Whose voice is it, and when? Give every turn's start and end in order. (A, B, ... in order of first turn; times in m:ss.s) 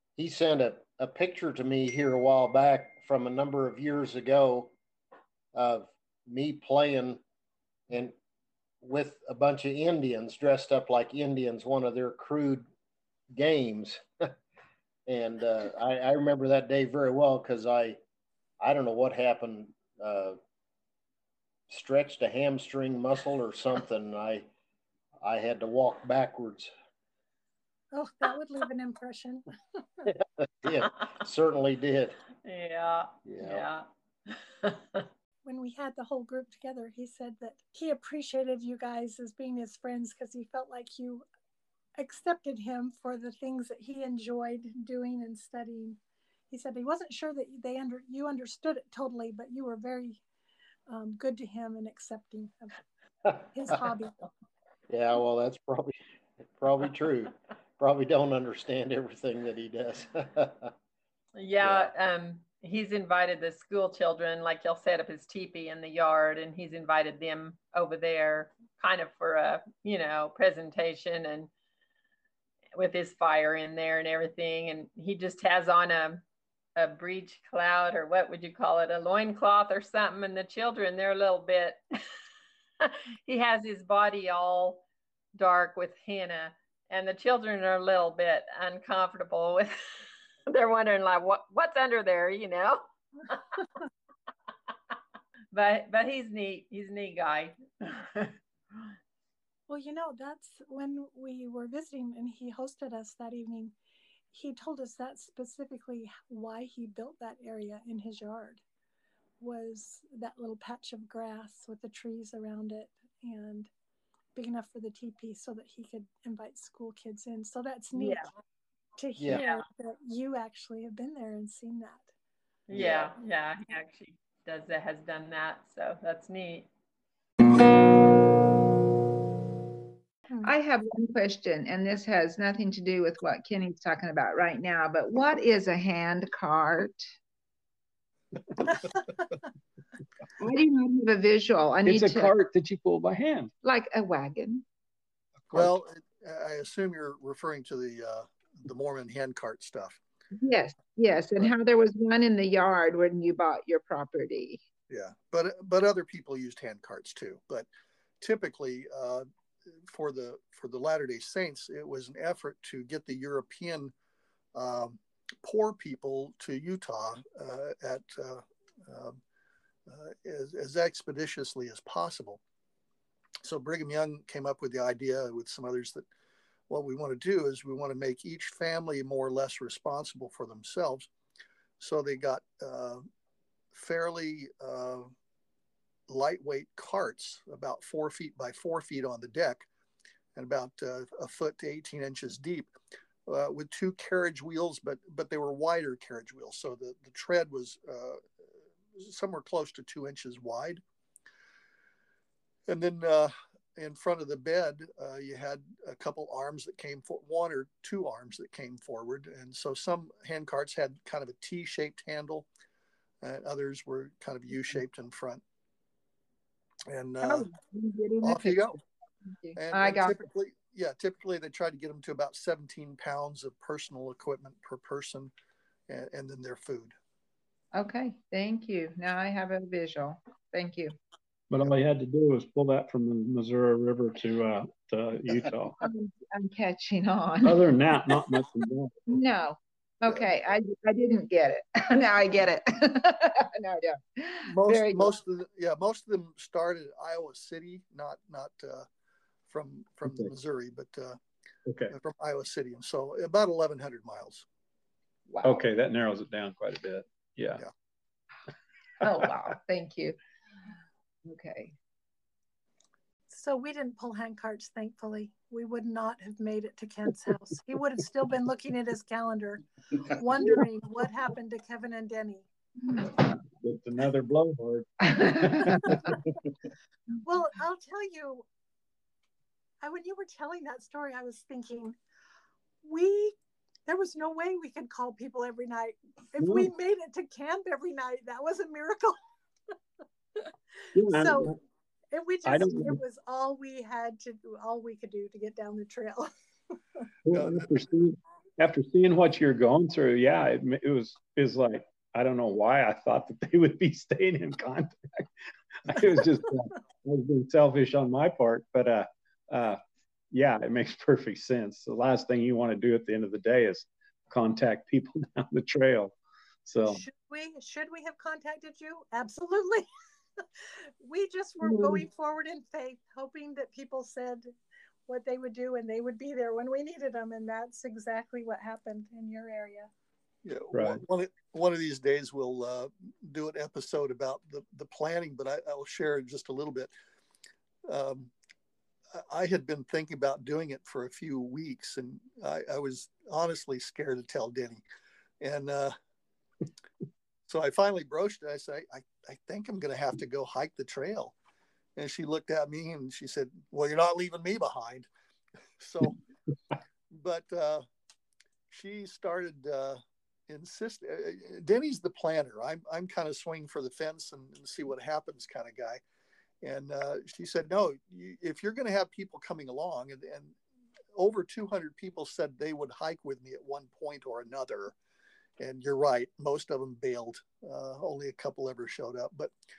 0:00.2-0:04.7 A
0:05.5-0:07.2 A
0:07.9-0:08.1 A
0:08.8-0:12.7 A
0:13.3-0:14.3 A
0:15.1-0:18.0 A
0:18.6-0:20.4 A
0:21.7-0:24.5 A
0:25.2-0:26.7 A
0:27.9-0:29.4 B
0:30.1-0:32.2 A
0:32.4-0:35.0 C
0:33.2-0:33.6 A
0:35.4-0:41.2 B
0:42.0-0:46.0 B
0:46.5-0:50.2 B
0:50.9-0:52.8 B
0:53.5-0:54.1 B
0:54.9-0:55.9 A
0:56.6-1:00.7 A
1:01.4-1:11.5 C
1:01.6-1:01.9 A
1:12.7-1:16.2 C
1:16.8-1:21.8 C
1:22.8-1:24.8 C
1:25.3-1:29.8 C
1:30.5-1:33.4 C
1:35.5-1:38.3 C
1:39.7-1:43.7 B
1:44.3-1:48.6 B
1:49.4-1:53.7 B
1:54.3-1:58.2 B
1:57.9-1:58.3 C
1:59.0-2:02.1 B
1:59.2-1:59.4 A
1:59.3-1:59.6 C
2:02.7-2:06.7 C
2:02.7-2:03.1 A
2:10.4-2:17.0 D
2:20.4-2:22.3 D
2:21.8-2:23.5 E
2:23.6-2:24.6 D
2:25.5-2:30.0 F
2:30.4-2:34.6 D
2:34.9-2:37.7 F
2:38.2-2:43.9 F
2:44.5-2:49.2 F
2:49.9-2:52.4 F
2:53.4-2:56.1 F
2:56.7-3:01.1 F
3:01.8-3:03.0 F
3:03.7-3:05.1 F
3:06.1-3:09.7 F
3:10.3-3:12.7 F
3:13.2-3:18.2 F
3:18.9-3:20.8 F
3:22.7-3:32.5 F
3:33.2-3:35.4 F
3:36.9-3:37.5 F
3:37.2-3:40.2 D
3:38.2-3:38.8 F
3:39.6-3:45.3 F
3:45.9-3:46.9 F
3:47.7-3:51.0 D
3:51.5-3:55.8 E
3:55.8-3:58.1 D
3:57.4-3:59.1 E
3:59.1-4:05.1 D
4:04.4-4:08.9 F
4:09.5-4:11.2 F
4:11.6-4:11.9 E
4:11.9-4:14.4 F
4:15.3-4:15.6 D
4:15.4-4:17.6 E
4:19.0-4:20.2 D
4:21.2-4:21.7 D
4:23.3-4:33.0 B
4:33.6-4:36.1 E
4:35.0-4:35.9 D
4:37.2-4:38.4 B
4:39.8-4:42.0 B
4:42.8-4:43.3 B
4:43.9-4:49.2 B
4:46.4-4:46.7 E
4:50.4-4:51.6 B
4:50.9-4:51.6 E
4:52.1-4:56.3 B
4:52.4-4:53.0 E
4:57.2-5:05.3 E
4:57.3-4:57.7 F
5:05.8-5:09.8 E
5:10.3-5:16.1 E
5:16.6-5:17.0 E
5:16.8-5:19.9 B
5:20.4-5:24.5 B
5:21.7-5:21.9 D
5:25.1-5:29.9 B
5:30.4-5:36.9 F
5:30.7-5:31.0 E
5:37.8-5:38.3 F
5:39.1-5:44.8 F
5:45.4-5:45.9 F
5:47.5-5:51.3 F
5:52.0-5:55.1 F
5:55.8-5:56.2 F
5:57.1-5:57.8 F
5:58.7-6:06.0 F
6:06.6-6:10.6 F
6:11.1-6:14.9 F
6:15.6-6:19.5 F